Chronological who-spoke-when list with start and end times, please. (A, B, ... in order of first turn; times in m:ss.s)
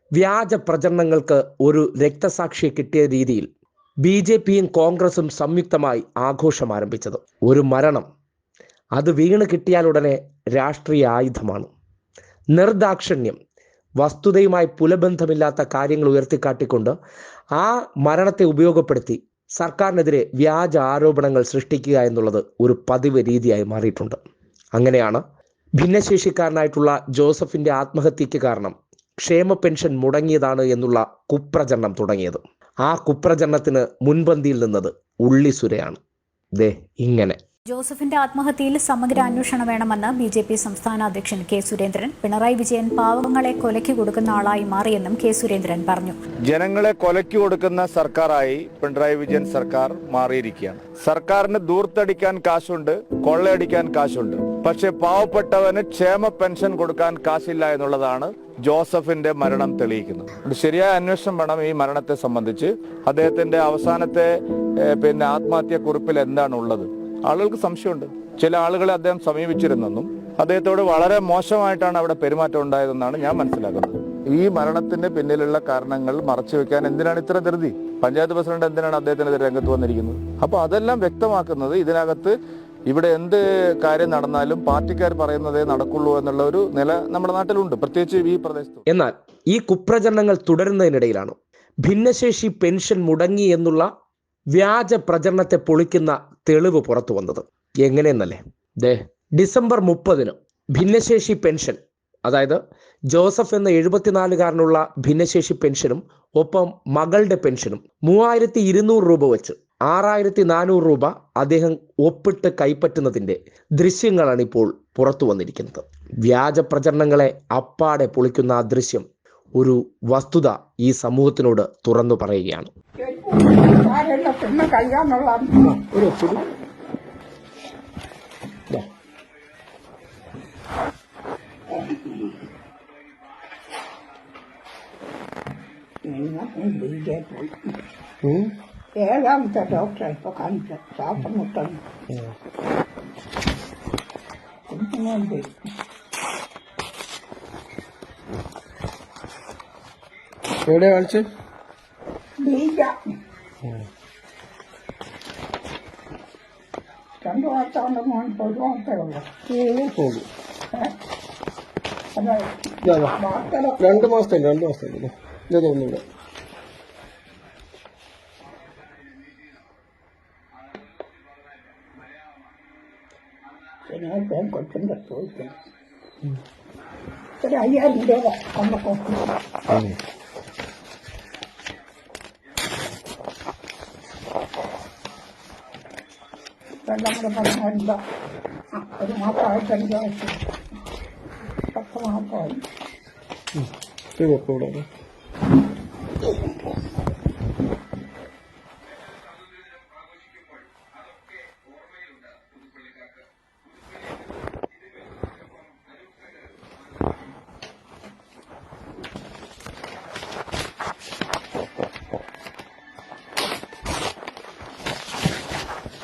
0:00.2-0:03.5 A
0:04.0-0:08.1 A
0:09.0-0:11.7 A
0:12.5-0:13.4 A
0:14.0-0:17.0 A
0:17.6-0:24.2 A
0:24.8-0:25.2 A
0:25.8-0:36.0 A
0:36.6-0:37.4 A
0:37.7-0:46.2 B
0:46.5-1:04.3 C
1:04.8-1:22.4 C
1:22.9-1:28.8 C
1:28.9-1:33.9 A
1:34.6-1:42.6 A
1:43.1-1:59.1 A
1:59.6-2:02.7 A
2:03.0-2:05.8 D
2:05.7-2:06.4 E
2:11.8-2:12.2 D
2:16.1-2:17.7 D
2:18.2-2:18.6 E
2:19.0-2:21.8 D
2:24.7-2:25.5 D
2:30.6-2:31.3 E
2:32.4-2:32.9 D
2:37.2-2:39.3 D
2:39.5-2:40.3 E
2:42.2-2:44.1 D
2:42.8-2:43.2 E
2:43.8-2:46.0 E
2:53.9-2:55.5 D
2:57.4-2:59.3 D
2:59.7-3:00.0 E
3:06.9-3:08.0 D
3:08.8-3:10.4 D
3:11.7-3:12.6 D
3:13.6-3:14.9 E